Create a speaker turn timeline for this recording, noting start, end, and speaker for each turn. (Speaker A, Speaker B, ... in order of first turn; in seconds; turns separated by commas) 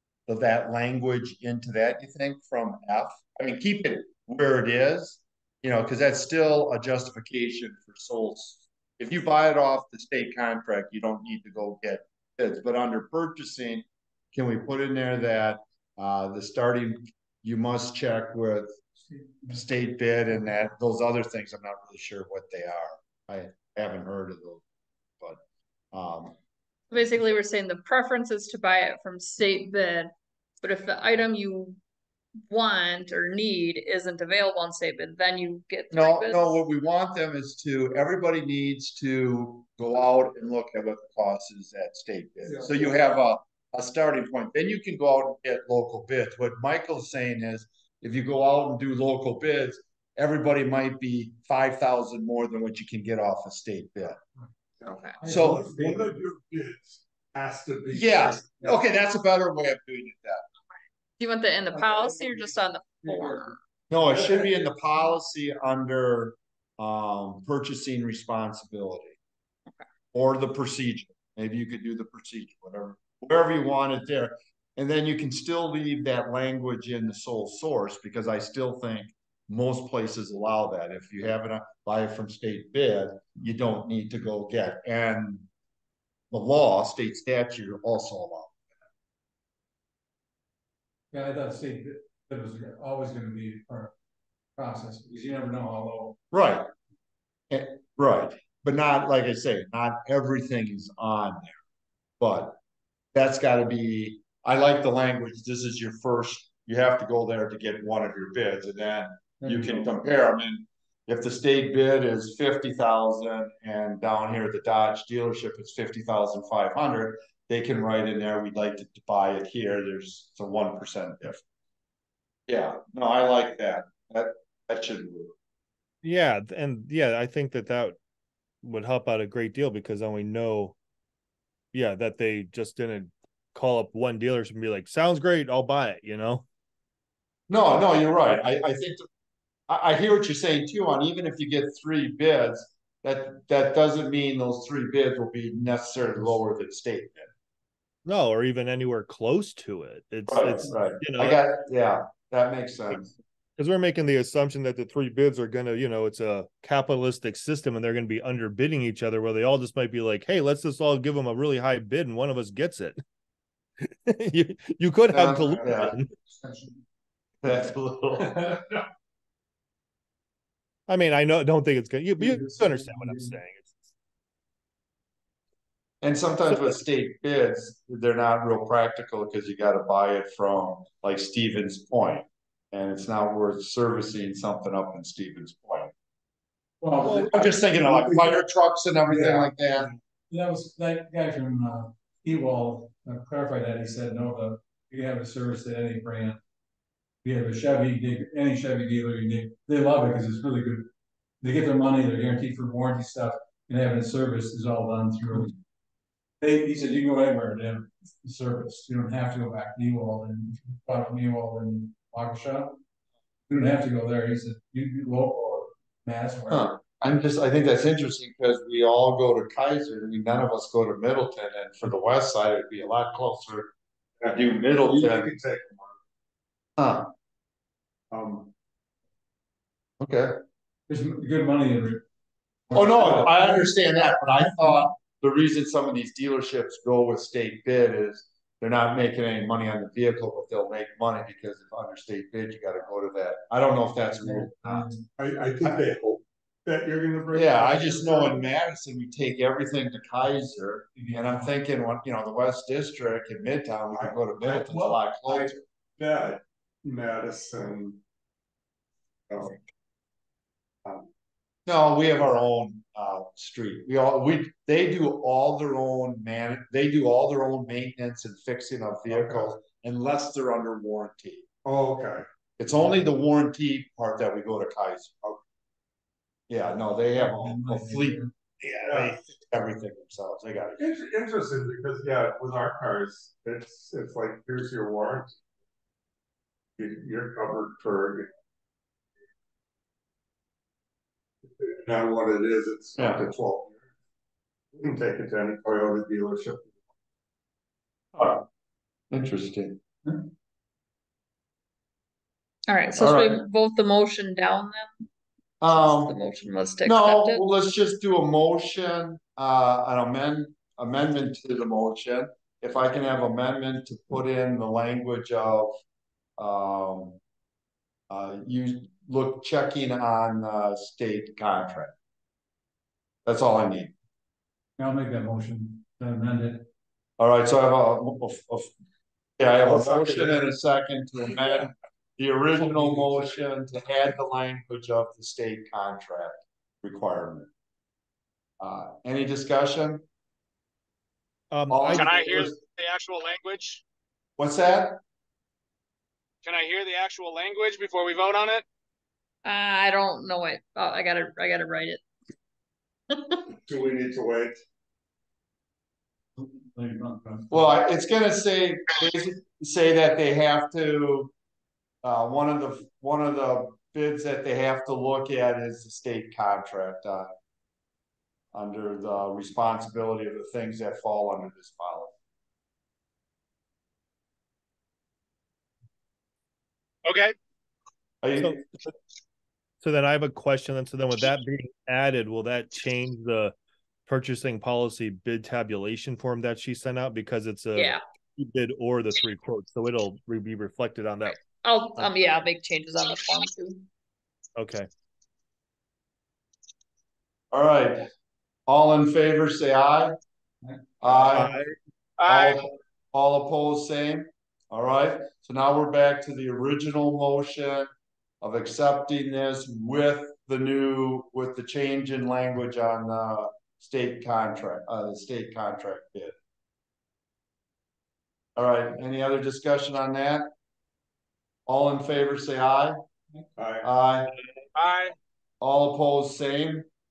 Speaker A: 0.3-18.8, Speaker A: 19.5-24.6, Speaker A: 25.9-26.4, Speaker B: 26.9-31.8, Speaker B: 32.5-36.6, Speaker A: 35.9-54.2, Speaker C: 54.8-58.6, Speaker B: 54.9-55.2, Speaker D: 55.2-56.2, Speaker A: 55.2-55.6, Speaker A: 57.9-60.4, Speaker B: 61.2-63.6, Speaker D: 61.8-62.5, Speaker D: 63.0-63.5, Speaker A: 63.9-69.2, Speaker C: 64.1-64.4, Speaker A: 70.1-85.5, Speaker A: 86.3-88.6, Speaker D: 91.1-93.9, Speaker D: 94.6-96.2, Speaker A: 96.3-96.7, Speaker A: 97.5-101.6, Speaker A: 102.2-102.6, Speaker A: 103.1-121.4, Speaker D: 109.4-109.9, Speaker A: 122.5-125.3, Speaker E: 126.0-128.0, Speaker E: 128.6-130.8, Speaker E: 131.7-136.4, Speaker A: 137.5-139.1, Speaker A: 139.7-147.3, Speaker E: 148.1-151.4, Speaker A: 150.3-153.1, Speaker E: 153.6-163.0, Speaker E: 163.9-166.1, Speaker A: 165.1-166.0, Speaker D: 166.4-166.8, Speaker A: 167.4-168.6, Speaker C: 168.2-168.8, Speaker E: 170.9-173.8, Speaker D: 172.2-173.4, Speaker A: 176.0-185.9, Speaker D: 186.8-187.5, Speaker A: 187.0-189.9, Speaker C: 187.3-188.4, Speaker C: 189.1-189.9, Speaker D: 190.3-196.4, Speaker D: 197.2-200.9, Speaker D: 201.4-205.6, Speaker D: 206.4-212.8, Speaker D: 213.5-216.8, Speaker A: 216.5-223.7, Speaker C: 224.2-226.0, Speaker A: 224.3-225.3, Speaker A: 226.8-227.1, Speaker C: 228.1-228.5, Speaker A: 230.0-230.4, Speaker D: 230.9-232.1, Speaker D: 232.7-233.7, Speaker A: 232.7-245.0, Speaker D: 234.4-234.8, Speaker D: 244.2-245.1, Speaker C: 245.2-248.4, Speaker A: 247.3-255.6, Speaker D: 251.0-251.5, Speaker C: 253.9-258.0, Speaker C: 259.3-259.6, Speaker A: 261.7-271.4, Speaker C: 271.6-272.2, Speaker A: 272.6-275.2, Speaker A: 276.5-280.8, Speaker D: 277.1-278.3, Speaker C: 278.8-279.2, Speaker C: 280.8-285.4, Speaker C: 286.8-288.3, Speaker C: 291.6-293.8, Speaker A: 293.0-293.2, Speaker C: 294.8-296.8, Speaker A: 298.2-298.4, Speaker A: 299.1-299.8, Speaker B: 302.7-305.1, Speaker A: 303.0-303.4, Speaker A: 305.6-306.2, Speaker B: 305.7-307.4, Speaker A: 306.8-315.8, Speaker A: 316.4-317.2, Speaker A: 318.1-321.9, Speaker A: 323.2-323.9, Speaker D: 324.8-326.7, Speaker A: 327.2-328.7, Speaker A: 329.4-337.5, Speaker C: 329.6-330.5, Speaker A: 338.6-340.0, Speaker E: 341.5-342.4, Speaker A: 341.7-342.6, Speaker F: 341.9-343.8, Speaker A: 344.4-345.0, Speaker F: 346.4-348.6, Speaker B: 349.4-352.0, Speaker B: 353.1-353.4, Speaker C: 353.6-354.6, Speaker D: 356.4-357.8, Speaker A: 357.5-361.3, Speaker A: 362.0-367.3, Speaker A: 368.5-372.1, Speaker F: 377.1-377.4, Speaker A: 378.2-378.6, Speaker E: 378.4-378.7, Speaker E: 379.8-383.5, Speaker E: 384.1-391.4, Speaker B: 391.6-393.9, Speaker E: 394.6-394.9, Speaker A: 397.5-398.1, Speaker A: 398.7-400.1, Speaker A: 401.0-401.5, Speaker E: 401.1-401.7, Speaker F: 402.2-402.7, Speaker A: 402.3-407.9, Speaker A: 408.4-416.4, Speaker A: 418.6-420.5, Speaker A: 421.7-423.0, Speaker C: 423.6-423.9, Speaker A: 423.8-424.3, Speaker F: 424.8-425.1, Speaker A: 425.6-426.9